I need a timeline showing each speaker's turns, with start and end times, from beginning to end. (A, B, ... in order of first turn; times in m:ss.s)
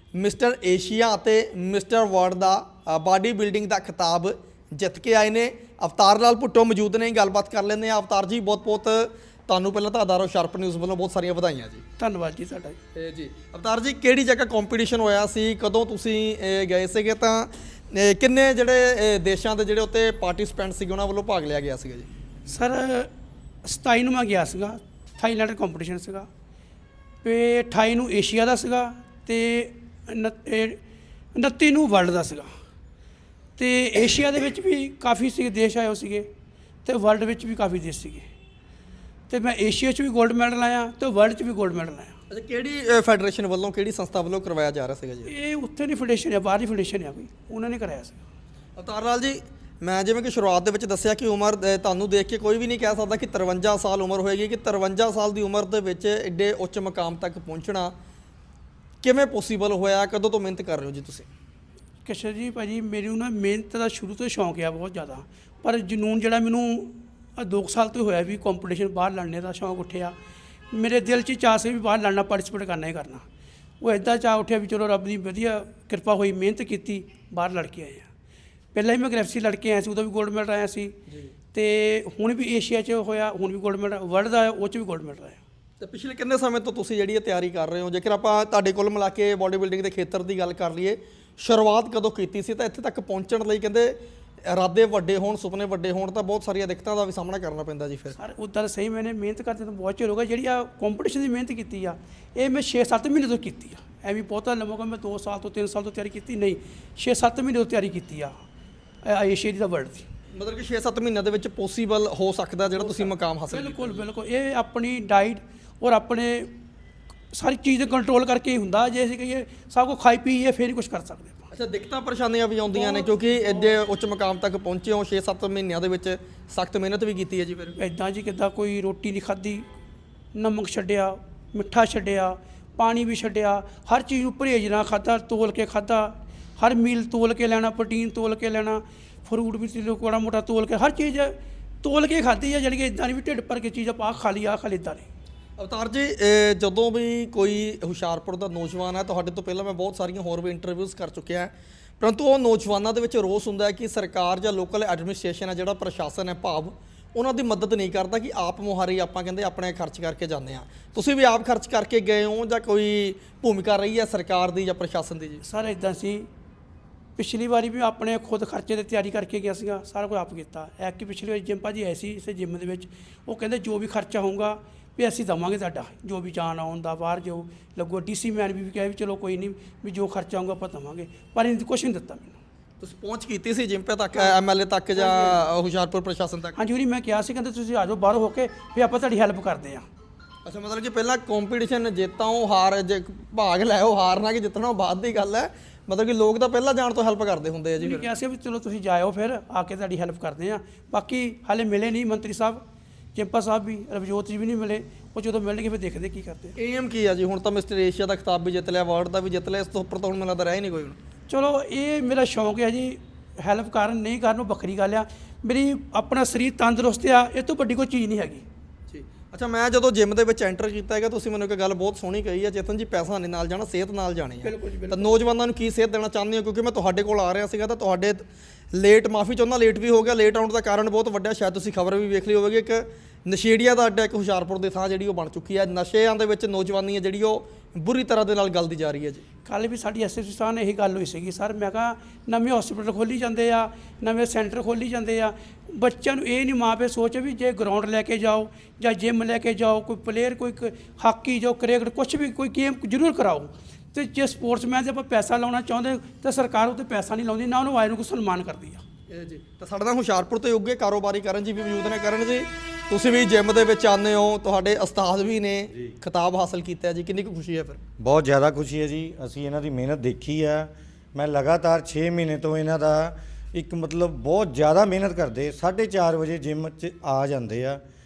0:00.1-0:11.8 A
0:12.0-0:12.8 B
0:12.9-0:22.1 A
0:22.5-0:23.1 B
0:23.6-0:26.3 B
0:27.2-0:30.8 B
0:31.3-0:32.5 B
0:33.6-0:36.3 B
0:36.8-0:38.2 B
0:39.3-0:42.1 B
0:42.3-0:45.3 A
0:45.3-0:48.2 B
0:48.8-0:57.9 A
0:59.0-1:01.3 A
1:02.0-1:10.1 B
1:10.7-1:13.2 B
1:13.8-1:18.1 B
1:18.7-1:21.0 B
1:21.5-1:25.4 B
1:25.8-1:38.2 A
1:38.2-1:48.3 B
1:49.0-1:50.1 B
1:50.3-1:54.0 A
1:52.7-1:56.5 B
1:57.3-2:01.5 B
2:01.5-2:07.8 A
2:02.7-2:03.8 B
2:07.8-2:09.6 B
2:10.3-2:25.1 B
2:25.6-2:45.4 A
2:45.4-2:46.3 B
2:47.2-3:02.4 B
3:02.8-3:06.6 A
3:05.0-3:05.4 B
3:06.6-3:09.8 B
3:10.4-3:18.1 A
3:17.8-3:22.6 B
3:23.1-3:26.6 B
3:26.6-3:31.0 A
3:31.3-3:38.4 B
3:38.9-3:59.2 A
3:44.4-3:45.2 B
3:59.4-4:18.8 B
4:19.1-4:27.8 A
4:28.0-4:37.8 C